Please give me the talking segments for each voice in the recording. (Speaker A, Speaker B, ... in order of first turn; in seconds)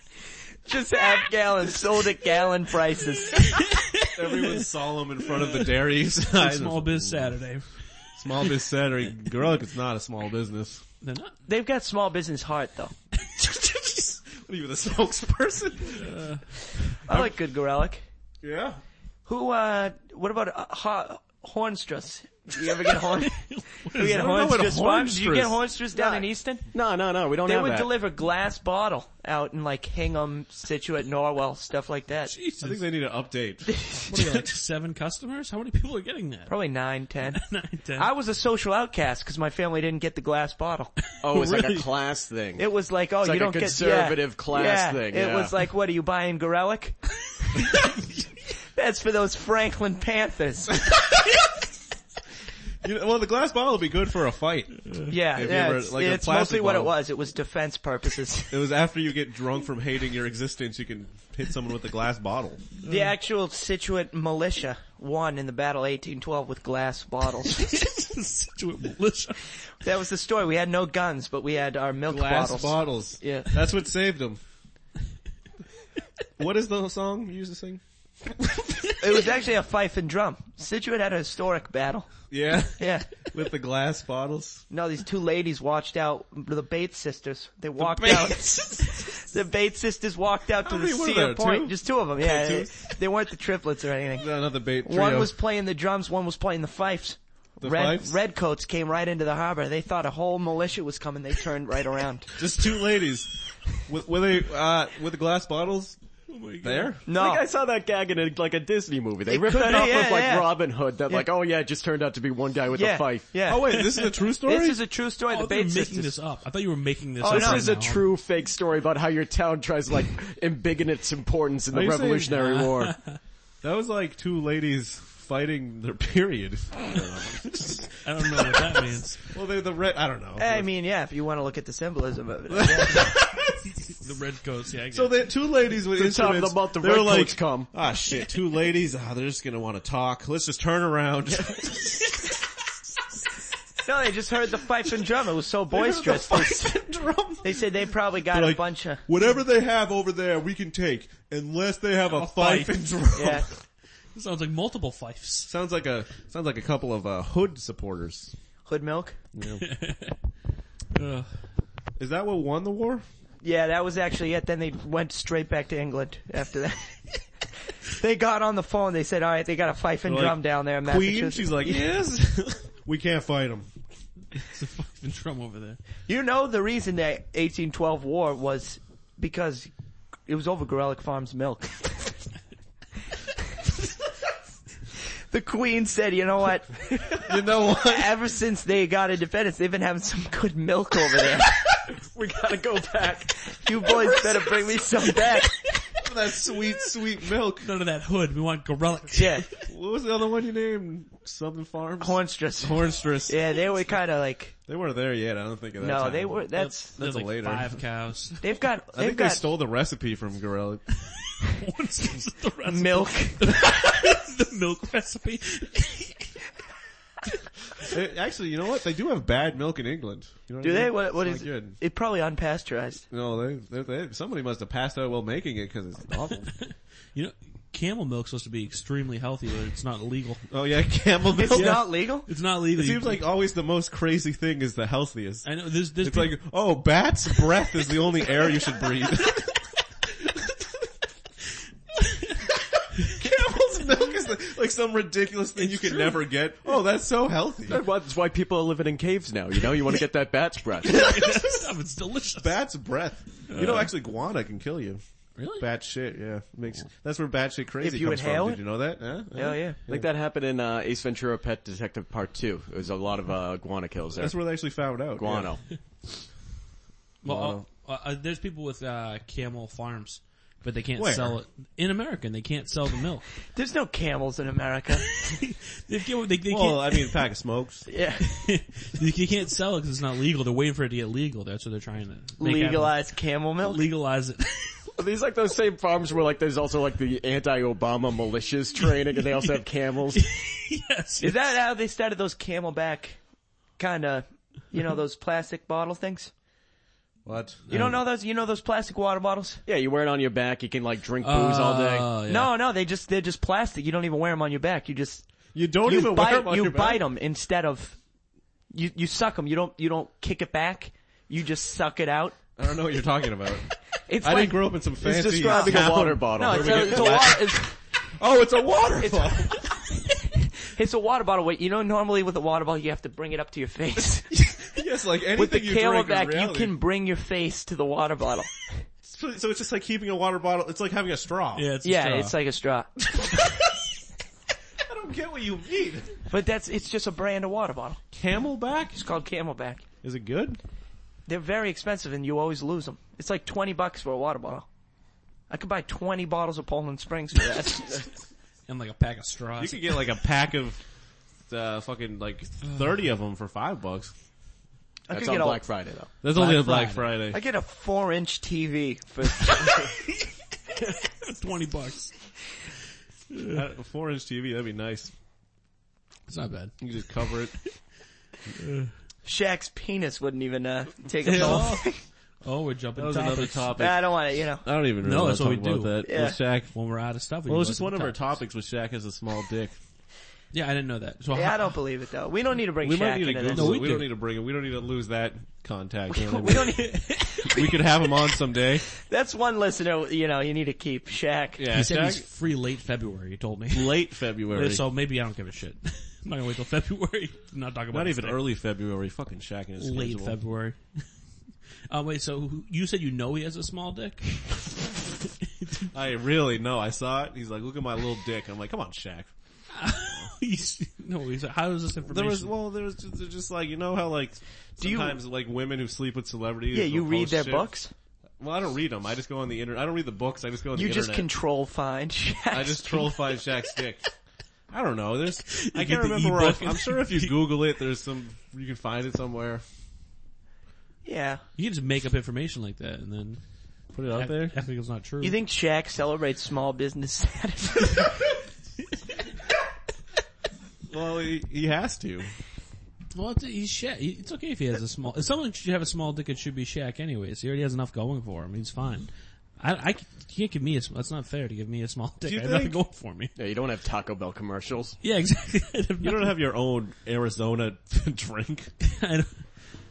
Speaker A: 0.7-3.7, 11.4-12.9, 17.1-18.0, 19.2-26.7, 27.4-32.3, 33.7-34.2, 36.5-37.4, 38.0-41.0, 42.6-48.0, 48.7-50.9, 55.1-58.6, 62.9-67.7, 69.8-73.5, 79.0-82.1, 82.8-83.2, 84.7-94.3, 94.8-102.4, 107.0-107.4, 109.3-110.5, 112.7-116.1, 117.2-117.6, 130.4-133.2, 143.8-146.8, 147.4-149.0, 153.1-153.5, 158.7-159.2, 163.4-167.2, 167.8-171.8, 176.1-179.7, 180.3-182.1, 185.3-191.8, 193.5-195.8, 199.1-199.5, 202.0-204.5, 205.8-206.9, 208.4-209.4, 212.7-213.7, 220.6-223.0, 231.3-232.3, 257.8-258.6, 259.3-259.8, 273.5-275.2, 277.9-278.4, 282.4-283.8, 291.2-293.2, 293.8-296.3, 297.7-299.6, 302.2-305.3, 305.8-308.0, 308.7-312.4, 314.1-314.8, 315.4-317.8, 319.0-324.5, 325.3-328.8, 331.8-333.4, 336.3-338.0, 338.9-339.8, 341.2-344.7, 345.5-348.1, 355.1-355.6, 357.3-360.0, 369.2-372.0, 373.8-374.7, 376.0-376.4, 381.3-383.9, 386.1-387.8, 389.0-391.7, 414.8-415.2, 416.7-417.9, 420.7-423.2, 431.0-431.4, 435.2-438.3
Speaker B: 3.6-4.6, 6.3-8.5, 11.0-11.3, 15.9-16.4, 23.1-24.4, 32.3-32.8, 34.1-36.5, 37.3-38.1, 41.2-41.9, 67.6-69.5, 87.9-88.9, 106.3-106.9, 113.7-114.0, 115.3-118.1, 122.3-123.2, 128.0-129.2, 133.9-135.2, 152.1-152.8, 154.1-155.5, 159.6-160.2, 160.9-161.3, 174.3-175.8, 197.6-199.6, 206.6-208.5, 211.2-216.3, 226.6-230.4, 231.5-233.2, 235.4-236.4, 245.6-246.2, 250.8-252.5, 253.5-253.9, 255.3-255.7, 267.2-273.2, 275.2-277.2, 278.2-282.9, 283.6-284.9, 290.1-291.5, 297.7-298.0, 301.2-302.5, 331.5-332.3, 348.7-350.0, 356.3-357.1, 361.2-362.1, 363.3-363.6, 366.3-366.9, 368.6-368.9, 371.2-371.9, 372.4-373.7, 375.0-378.3, 380.5-381.8, 383.5-384.1, 386.5-387.5, 391.7-398.4, 399.8-401.1, 401.9-404.7, 405.6-405.9, 409.7-412.5, 425.6-427.4, 431.6-433.4, 434.1-435.4, 443.1-453.3, 455.0-456.3, 458.8-459.4
Speaker C: 4.1-7.3, 8.1-10.8, 13.4-16.2, 17.1-17.3, 18.4-18.8, 24.0-25.6, 32.6-34.4, 52.8-56.9, 58.5-62.7, 72.1-74.4, 76.4-77.8, 82.3-84.6, 87.8-88.3, 90.6-92.9, 94.2-95.3, 97.6-98.2, 102.4-103.3, 103.8-106.0, 106.6-107.0, 113.4-114.8, 121.7-122.4, 123.6-130.7, 132.5-133.5, 134.9-142.0, 145.7-153.5, 155.5-158.3, 159.3-159.6, 162.0-163.0, 170.0-173.7, 187.2-188.1, 196.0-197.7, 199.6-203.6, 204.7-207.8, 208.9-210.8, 217.8-221.8, 223.1-226.5, 230.5-231.9, 232.8-239.7, 243.0-247.8, 250.9-251.6, 252.4-255.0, 255.6-260.1, 264.2-265.5, 267.2-267.6, 270.9-271.4, 276.5-277.9, 297.2-297.7, 305.5-307.0, 312.6-319.6, 324.3-326.7, 329.0-331.7, 334.8-336.2, 338.1-339.0, 340.0-340.6, 349.6-350.8, 351.5-354.1, 356.2-357.4, 363.5-365.1, 366.8-367.6, 371.2-371.8, 372.9-376.7, 377.4-379.8, 382.8-386.8, 387.4-388.8, 391.6-392.2, 393.7-394.8, 397.9-400.4, 405.9-409.3, 412.1-417.7, 418.4-421.3, 422.5-424.0, 424.7-429.6, 433.9-434.6, 440.9-442.3, 452.2-452.8, 456.0-458.7
Speaker D: 25.9-27.9, 41.2-42.7, 43.2-45.5, 107.1-113.3, 117.2-123.0, 135.9-137.7, 191.8-195.4, 247.7-251.0, 259.9-264.4, 265.1-265.6, 285.0-290.2, 299.6-302.2, 315.0-317.3, 355.1-356.1, 453.4-455.0